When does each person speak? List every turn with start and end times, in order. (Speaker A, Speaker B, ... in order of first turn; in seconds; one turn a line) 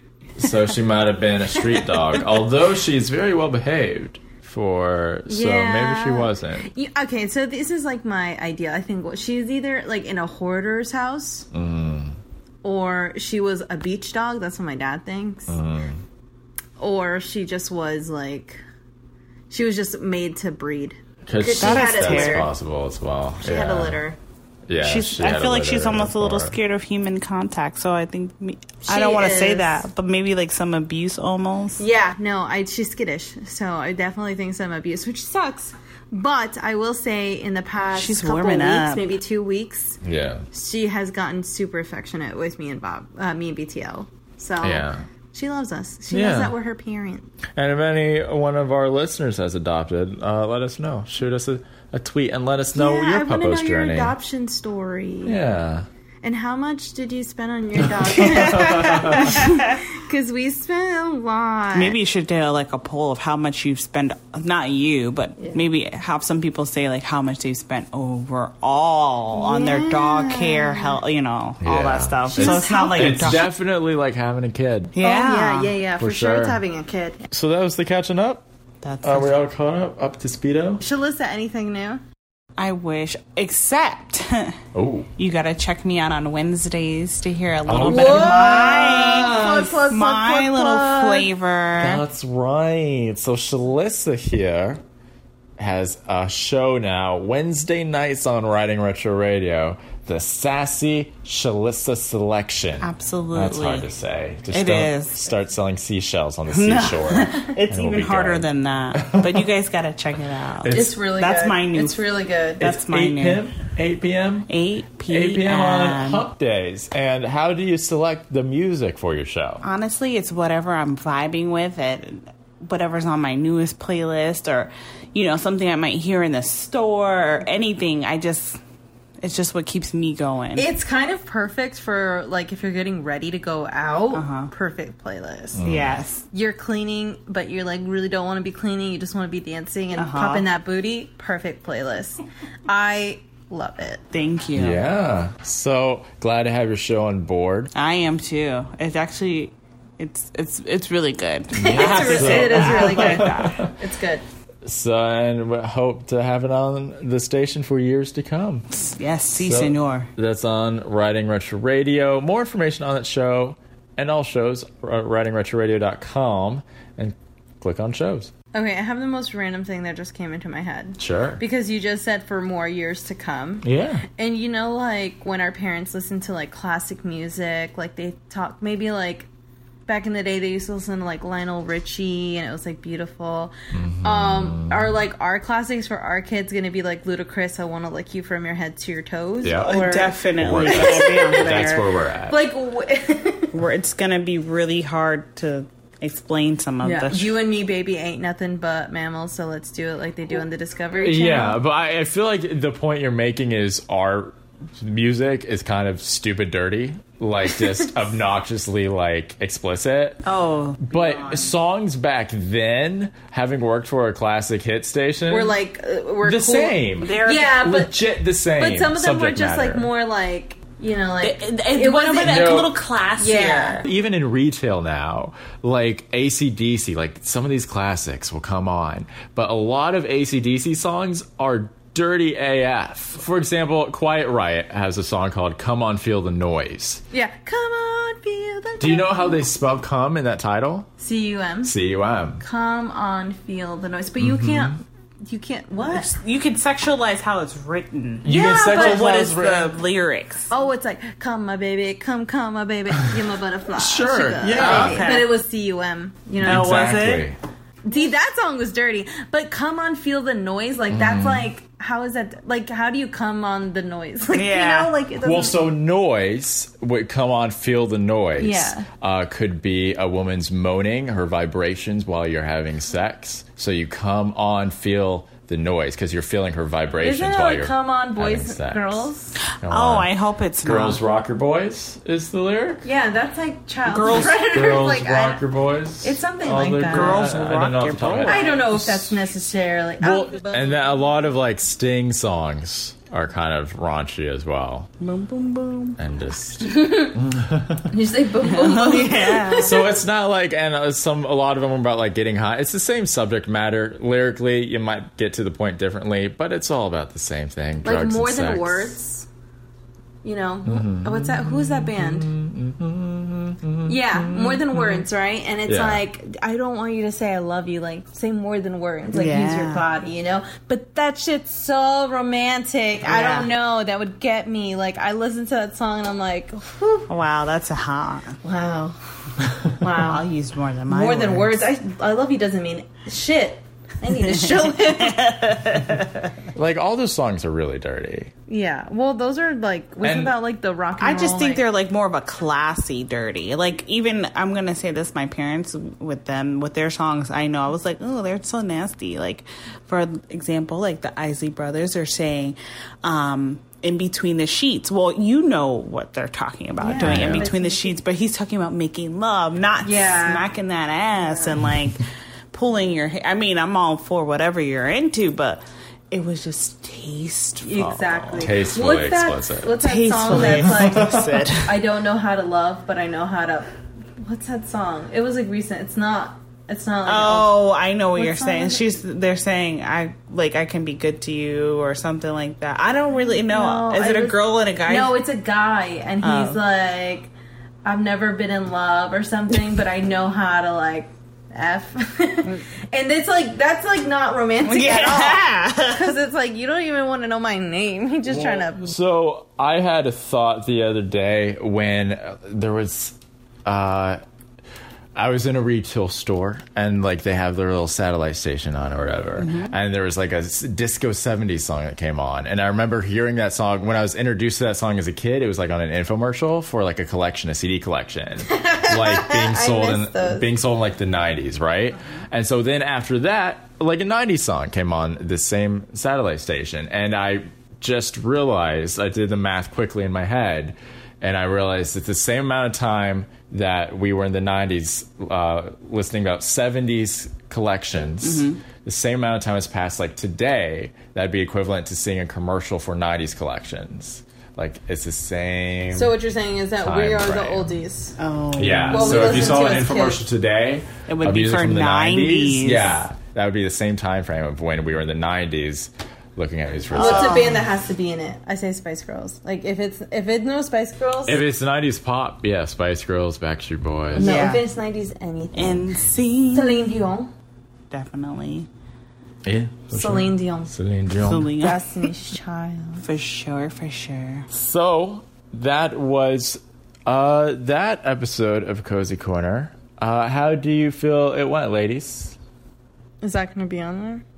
Speaker A: 0.4-6.7
Speaker B: 5.3-11.5
Speaker A: 11.5-12.2
Speaker B: 12.6-15.6
Speaker A: 15.5-16.0
Speaker B: 16.8-18.6
Speaker B: 19.5-22.5
Speaker A: 21.3-24.0
Speaker C: 21.6-22.5
Speaker B: 23.4-24.2
Speaker A: 24.7-26.6
Speaker C: 24.8-31.8
Speaker B: 28.9-29.8
Speaker B: 31.8-40.0
Speaker C: 37.9-39.1
Speaker A: 40.0-40.5
Speaker B: 40.5-47.3
Speaker A: 44.6-45.0
Speaker A: 46.1-46.5
Speaker A: 47.6-54.1
Speaker B: 52.7-55.4
Speaker A: 55.2-55.9
Speaker B: 56.2-62.0
Speaker A: 57.8-59.4
Speaker C: 59.0-59.6
Speaker C: 61.7-73.5
Speaker B: 69.3-71.0
Speaker A: 71.6-75.0
Speaker B: 72.3-73.4
Speaker C: 75.0-75.7
Speaker B: 75.0-77.3
Speaker A: 76.0-76.6
Speaker A: 77.3-78.5
Speaker C: 78.8-79.3
Speaker A: 79.0-80.8
Speaker B: 80.8-82.0
Speaker C: 82.6-84.6
Speaker A: 84.7-85.1
Speaker C: 85.2-92.0
Speaker A: 87.7-88.8
Speaker B: 87.8-91.3
Speaker A: 91.8-94.8
Speaker A: 95.6-109.5
Speaker C: 102.8-103.9
Speaker C: 104.5-105.2
Speaker C: 106.5-113.5
Speaker A: 110.6-111.0
Speaker B: 110.7-112.7
Speaker A: 112.6-114.5
Speaker C: 114.5-116.2
Speaker A: 115.1-119.6
Speaker C: 119.6-128.6
Speaker C: 129.2-130.7
Speaker B: 130.6-135.6
Speaker C: 134.1-134.5
Speaker A: 135.6-136.0
Speaker C: 135.6-136.2
Speaker B: 136.3-144.0
Speaker C: 140.0-140.5
Speaker C: 144.1-144.8
Speaker A: 144.6-147.7
Speaker C: 147.8-153.7
Speaker B: 151.6-154.2
Speaker A: 151.6-153.7
Speaker A: 154.7-158.7
Speaker C: 158.8-160.1
Speaker A: 159.4-168.3
Speaker B: 168.5-179.3
Speaker A: 171.0-171.4
Speaker A: 173.6-174.0
Speaker B: 179.9-191.8
Speaker A: 183.7-184.9
Speaker A: 189.4-189.8
Speaker C: 189.6-191.9
Speaker A: 190.4-192.4
Speaker B: 192.3-193.5
Speaker C: 193.5-197.4
Speaker B: 196.8-201.6
Speaker A: 201.0-210.2
Speaker C: 210.3-211.5
Speaker A: 210.8-215.6
Speaker B: 215.3-217.9
Speaker A: 216.2-219.9
Speaker C: 217.0-217.6
Speaker B: 218.6-222.7
Speaker C: 221.2-223.9
Speaker A: 222.2-222.7
Speaker B: 223.2-223.8
Speaker A: 223.8-237.0
Speaker B: 237.1-239.5
Speaker A: 238.8-240.9
Speaker B: 241.0-241.8
Speaker A: 241.6-242.4
Speaker B: 242.4-246.1
Speaker A: 244.2-244.8
Speaker C: 245.9-250.5
Speaker A: 248.2-249.8
Speaker B: 248.3-249.1
Speaker B: 250.5-256.9
Speaker A: 253.8-255.1
Speaker C: 254.5-255.3
Speaker A: 256.4-257.4
Speaker C: 256.4-257.3
Speaker B: 257.9-265.7
Speaker A: 260.9-261.5
Speaker C: 264.3-264.9
Speaker A: 265.2-279.1
Speaker B: 268.4-268.9
Speaker B: 277.0-279.4
Speaker C: 279.5-281.0
Speaker A: 279.6-280.1
Speaker A: 280.6-282.8
Speaker B: 282.8-285.4
Speaker C: 283.9-284.5
Speaker A: 284.3-289.3
Speaker B: 286.0-287.3
Speaker C: 286.9-288.5
Speaker B: 288.2-290.8
Speaker A: 290.0-294.9
Speaker C: 295.0-296.0
Speaker A: 296.0-297.9
Speaker B: 296.6-297.2
Speaker B: 297.9-299.8
Speaker C: 298.4-299.8
Speaker A: 299.6-309.0
Speaker B: 307.8-309.3
Speaker B: 310.2-312.3
Speaker A: 310.6-315.1
Speaker B: 313.9-327.1
Speaker A: 315.7-316.0
Speaker C: 319.1-319.9
Speaker C: 323.0-323.5
Speaker C: 327.1-328.4
Speaker B: 328.4-329.0
Speaker B: 329.6-330.3
Speaker C: 330.0-331.6
Speaker B: 330.9-335.6
Speaker C: 334.2-336.3
Speaker A: 336.5-338.3
Speaker B: 338.5-341.6
Speaker A: 340.0-340.4
Speaker C: 341.0-368.2
Speaker B: 356.8-358.0
Speaker A: 357.0-357.5
Speaker B: 359.8-360.5
Speaker B: 361.2-361.6
Speaker B: 367.6-373.7
Speaker A: 368.0-369.7
Speaker C: 369.8-371.8
Speaker A: 370.3-371.4
Speaker B: 374.2-377.5
Speaker C: 377.1-385.2
Speaker B: 378.2-378.8
Speaker B: 383.4-387.3
Speaker C: 386.2-386.6
Speaker B: 387.9-398.9
Speaker C: 394.6-396.2
Speaker A: 398.3-404.2
Speaker A: 405.1-446.1
Speaker C: 409.4-409.7
Speaker B: 418.5-420.5
Speaker C: 438.2-438.6
Speaker B: 445.9-448.2
Speaker A: 446.8-447.8
Speaker C: 448.2-449.7
Speaker A: 448.6-457.6
Speaker B: 448.9-450.2
Speaker C: 451.1-453.0
Speaker C: 456.9-457.6
Speaker B: 456.9-461.4
Speaker A: 461.3-464.4
Speaker C: 464.2-464.6
Speaker B: 464.2-465.9
Speaker C: 465.6-466.9
Speaker B: 466.5-467.3
Speaker C: 467.9-468.7
Speaker A: 469.4-471.5
Speaker B: 469.9-470.8
Speaker C: 471.2-471.9
Speaker B: 471.6-473.1
Speaker C: 473.0-474.5
Speaker A: 474.5-482.4
Speaker B: 483.2-484.2